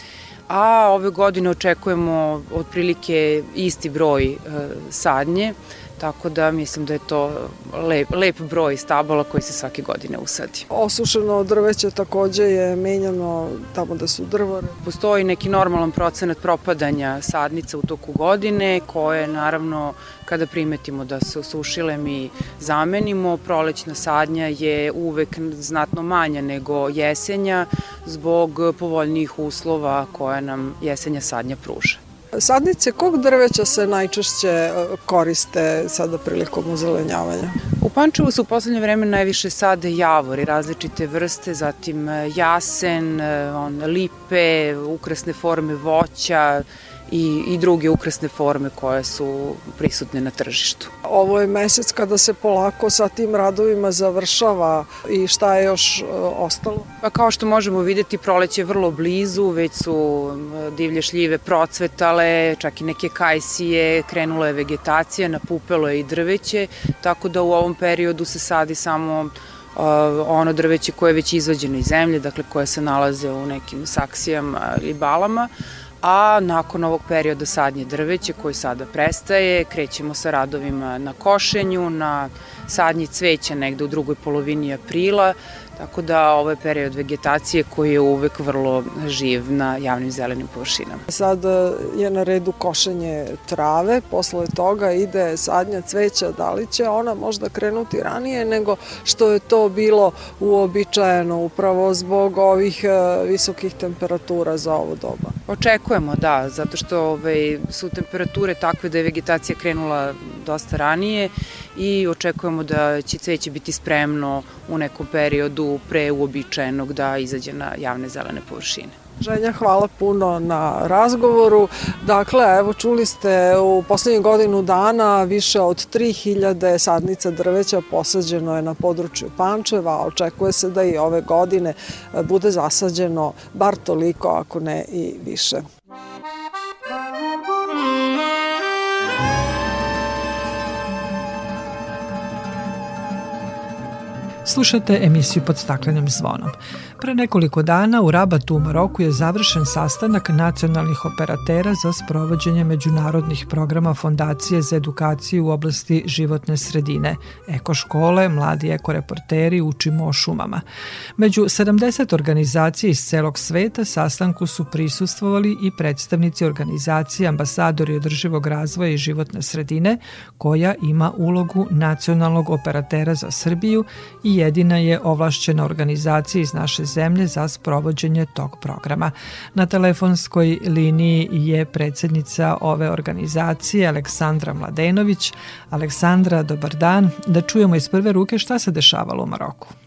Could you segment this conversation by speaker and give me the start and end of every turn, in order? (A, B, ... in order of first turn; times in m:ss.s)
0:00.5-0:10.6 A
0:10.7-0:14.8 B
0:14.8-0:32.0 A
0:32.3-0:37.6 B
0:37.8-0:50.9 A
0:51.0-0:56.9 B
0:57.0-1:15.5 A
1:16.0-1:31.0 A
1:31.1-1:45.4 B
1:45.5-1:59.0 A
1:59.2-2:15.6 B
2:24.4-2:40.6 C
2:41.2-3:09.7 C